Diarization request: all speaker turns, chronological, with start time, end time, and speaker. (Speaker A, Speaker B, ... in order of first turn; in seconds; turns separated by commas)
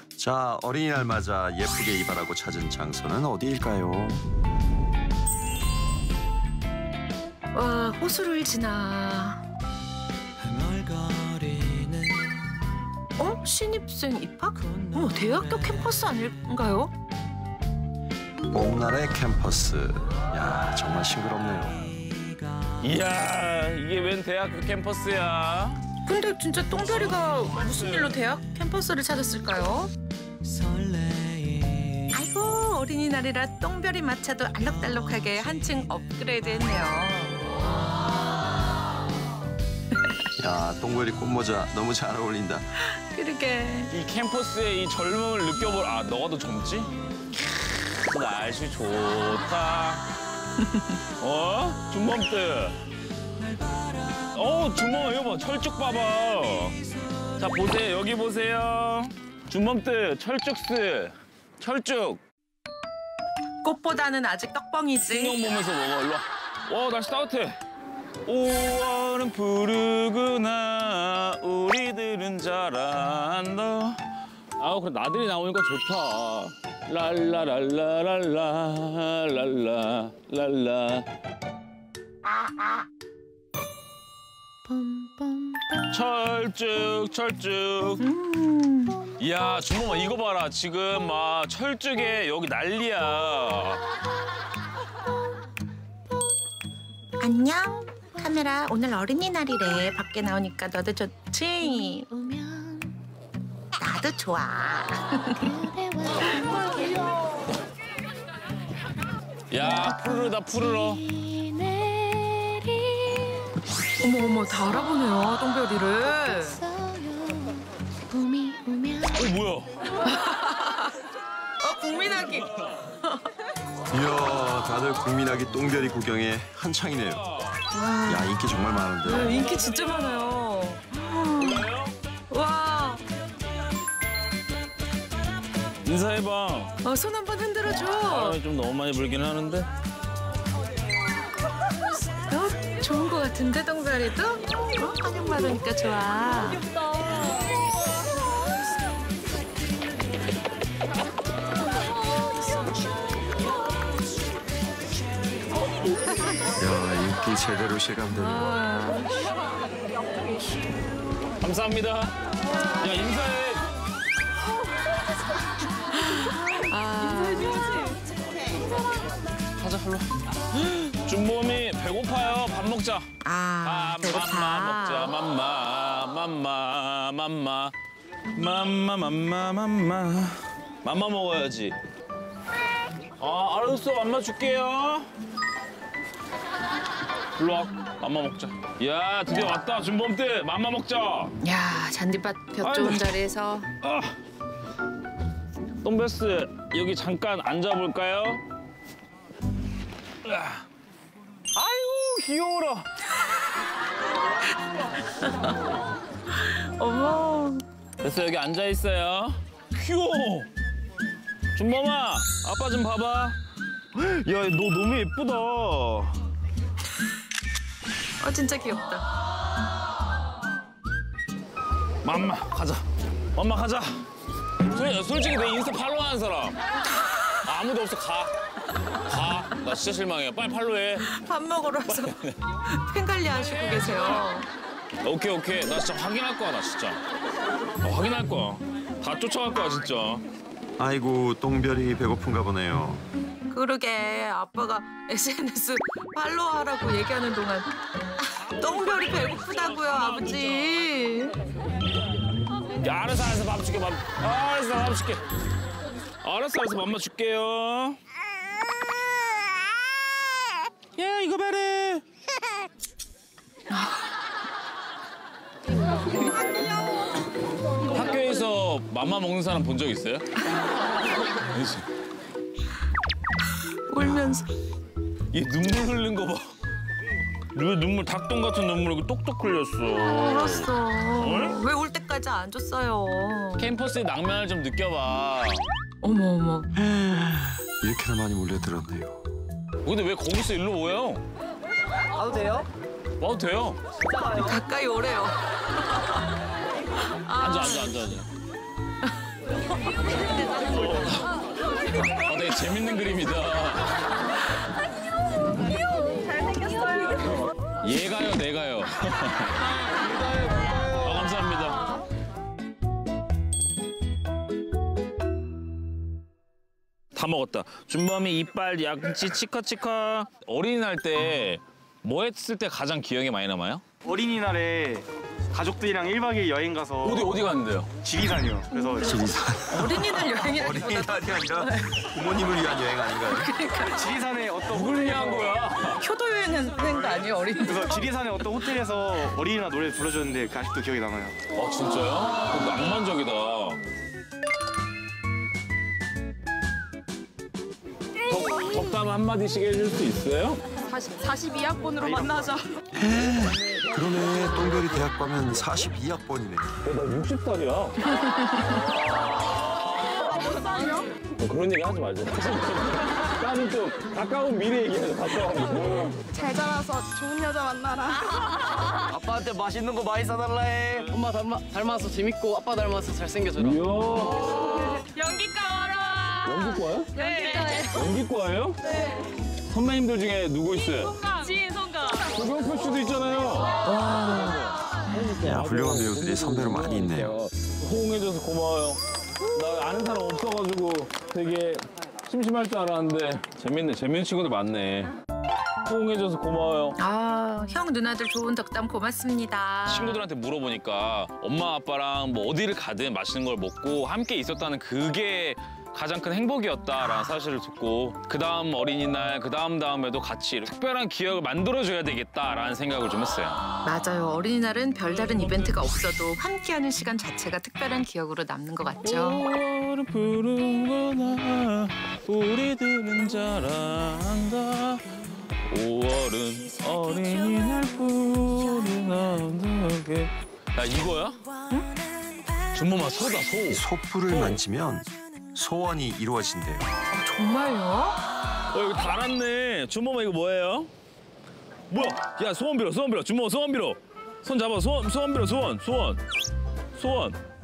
Speaker A: 0.2-4.2, Speaker B: 7.5-9.4, Speaker B: 13.2-16.9, Speaker A: 18.5-22.0, Speaker C: 22.8-25.9, Speaker B: 26.1-29.9, Speaker C: 26.8-28.2, Speaker B: 32.1-37.7, Speaker A: 40.4-42.6, Speaker B: 42.9-43.9, Speaker C: 43.9-46.9, Speaker C: 48.1-50.1, Speaker B: 50.6-50.9, Speaker C: 51.2-52.8, Speaker C: 54.3-56.8, Speaker C: 57.4-62.2, Speaker B: 63.6-65.5, Speaker C: 65.1-67.6, Speaker C: 68.3-74.0, Speaker C: 74.6-81.1, Speaker C: 85.9-88.0, Speaker B: 88.0-89.0, Speaker C: 89.2-93.8, Speaker B: 97.2-102.6, Speaker B: 103.8-106.4, Speaker C: 109.5-111.4, Speaker B: 111.7-113.2, Speaker B: 114.0-116.8, Speaker B: 118.1-118.9, Speaker C: 119.0-119.7, Speaker B: 120.0-121.0, Speaker B: 121.6-123.3, Speaker A: 123.9-127.3, Speaker C: 127.3-127.6, Speaker B: 127.7-131.7, Speaker A: 128.1-129.3, Speaker C: 129.1-130.2, Speaker C: 131.4-131.9, Speaker B: 132.3-133.0, Speaker C: 135.8-136.8, Speaker B: 136.8-138.4, Speaker C: 138.1-139.7, Speaker B: 142.3-146.7, Speaker A: 156.6-158.5, Speaker B: 158.1-159.3, Speaker C: 161.4-162.2, Speaker C: 162.8-163.7, Speaker B: 165.9-167.9, Speaker C: 169.6-170.1, Speaker C: 170.9-173.1, Speaker B: 173.2-175.1, Speaker C: 173.6-177.7, Speaker C: 178.3-181.8, Speaker C: 183.2-185.1, Speaker C: 187.4-191.3, Speaker B: 191.4-193.7, Speaker C: 192.6-193.1, Speaker C: 193.8-194.2, Speaker C: 195.8-198.4, Speaker C: 200.2-200.6, Speaker C: 201.5-202.9, Speaker B: 206.3-207.6, Speaker C: 208.0-210.5, Speaker C: 211.6-213.4, Speaker C: 213.9-216.2, Speaker B: 218.2-219.1, Speaker C: 222.0-222.8, Speaker C: 223.4-224.0, Speaker C: 224.6-226.6, Speaker C: 227.4-228.3, Speaker C: 229.0-231.1, Speaker B: 231.1-232.2, Speaker C: 231.9-232.4, Speaker B: 232.7-234.5, Speaker C: 233.7-234.2, Speaker C: 235.0-237.0, Speaker C: 237.8-240.2, Speaker A: 240.8-243.1, Speaker B: 243.5-251.4, Speaker C: 252.8-255.2, Speaker C: 256.2-258.0, Speaker C: 261.0-262.0, Speaker B: 263.7-264.1, Speaker C: 267.9-270.3, Speaker C: 271.5-271.9, Speaker B: 273.7-274.5, Speaker C: 275.3-276.4, Speaker C: 277.5-281.6, Speaker B: 279.9-283.7, Speaker C: 283.6-285.6, Speaker B: 286.0-286.7, Speaker A: 286.8-289.2, Speaker C: 289.9-291.2, Speaker D: 292.2-292.7, Speaker C: 293.2-293.8, Speaker B: 294.3-296.2, Speaker B: 297.1-298.0, Speaker C: 297.4-298.3, Speaker C: 300.5-301.3, Speaker C: 302.1-303.9, Speaker D: 306.4-307.3, Speaker C: 307.8-309.7, Speaker C: 310.7-311.9, Speaker C: 317.1-323.8, Speaker E: 324.1-327.4, Speaker C: 327.0-327.9, Speaker E: 328.0-329.2, Speaker B: 328.7-331.9, Speaker A: 329.0-333.5, Speaker B: 333.3-334.1, Speaker E: 333.9-335.6, Speaker C: 334.7-336.0, Speaker B: 336.0-338.1, Speaker E: 337.6-341.4, Speaker C: 341.5-343.8, Speaker C: 348.2-350.6, Speaker D: 350.9-352.7, Speaker A: 352.9-356.7, Speaker C: 356.8-358.1, Speaker C: 358.7-360.2, Speaker D: 360.3-361.1, Speaker C: 361.4-366.2, Speaker D: 366.3-368.9, Speaker F: 369.1-373.8, Speaker C: 373.6-375.0, Speaker D: 374.9-376.2, Speaker C: 376.3-378.8, Speaker D: 377.1-377.9, Speaker C: 379.7-381.3, Speaker D: 381.5-382.1, Speaker C: 382.1-389.0, Speaker B: 383.9-385.3, Speaker A: 385.4-387.4, Speaker C: 389.5-395.1, Speaker C: 395.9-397.0, Speaker B: 397.0-400.3, Speaker C: 399.9-413.6, Speaker B: 413.9-419.4, Speaker C: 419.0-425.0, Speaker C: 425.7-431.5, Speaker C: 432.7-434.6, Speaker A: 433.7-436.9, Speaker B: 437.1-438.2, Speaker C: 438.7-440.9, Speaker C: 441.9-446.2, Speaker C: 446.9-447.4